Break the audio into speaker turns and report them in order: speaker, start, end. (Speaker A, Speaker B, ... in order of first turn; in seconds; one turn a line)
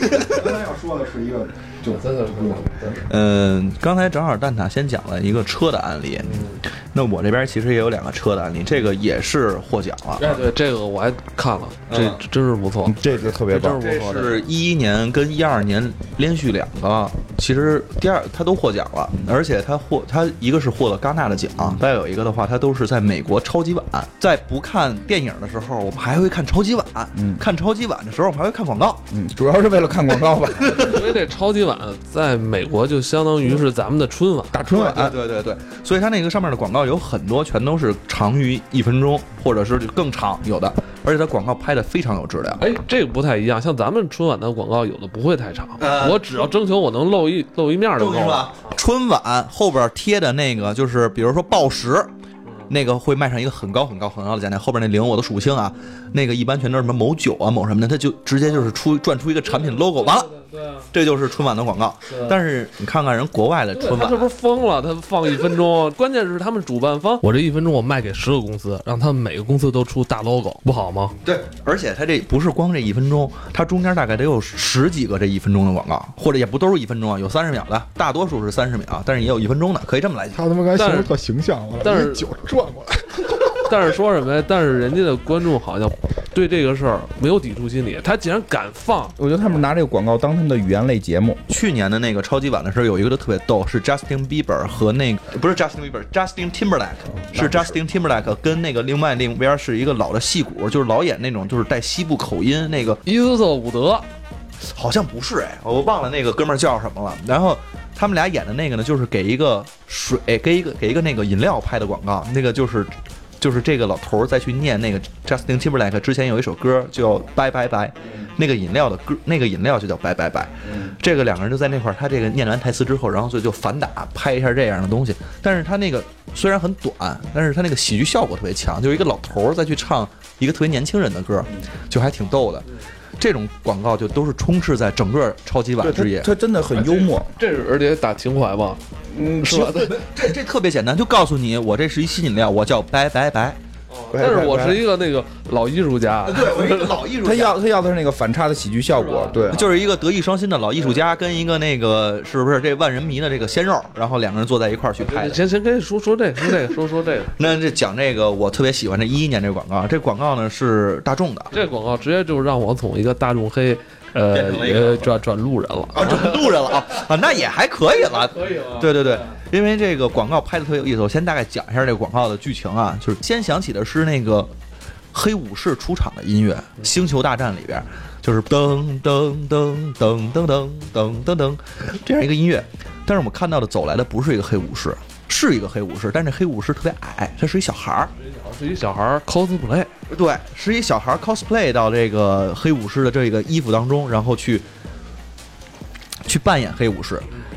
Speaker A: 0.2-3.0
Speaker B: 1.9-3.0
Speaker C: 3.1-10.4
Speaker B: 6.2-6.6
Speaker B: 10.2-14.4
Speaker C: 11.9-12.2
Speaker D: 12.8-13.8
Speaker C: 13.6-29.1
Speaker D: 27.2-27.4
Speaker D: 29.1-31.1
Speaker B: 30.8-34.6
Speaker D: 34.5-35.2
Speaker C: 34.7-42.6
Speaker B: 42.6-48.8
Speaker C: 45.8-46.2
Speaker C: 48.0-52.1
Speaker C: 52.7-60.3
Speaker B: 60.0-60.8
Speaker C: 60.9-64.3
Speaker B: 62.1-62.4
Speaker B: 63.7-71.2
Speaker C: 71.2-80.4
Speaker A: 80.3-83.7
Speaker B: 80.8-81.1
Speaker B: 81.8-82.3
Speaker B: 83.7-89.2
Speaker D: 89.2-91.4
Speaker C: 91.5-103.0
Speaker D: 97.2-97.8
Speaker B: 103.0-104.1
Speaker C: 104.6-132.7
Speaker C: 133.2-136.3
Speaker D: 135.8-137.3
Speaker B: 136.7-138.8
Speaker D: 139.1-139.9
Speaker B: 139.4-139.9
Speaker C: 139.8-143.6
Speaker B: 143.9-147.0
Speaker D: 144.1-144.9
Speaker C: 146.2-147.6
Speaker D: 147.2-149.6
Speaker B: 149.0-149.5
Speaker C: 149.5-155.4
Speaker B: 155.0-157.5
Speaker C: 157.4-161.5
Speaker B: 161.5-166.6
Speaker C: 164.3-165.2
Speaker C: 165.9-174.5
Speaker B: 168.4-168.8
Speaker C: 175.1-188.1
Speaker B: 188.2-189.9
Speaker C: 190.1-194.7
Speaker C: 196.2-197.3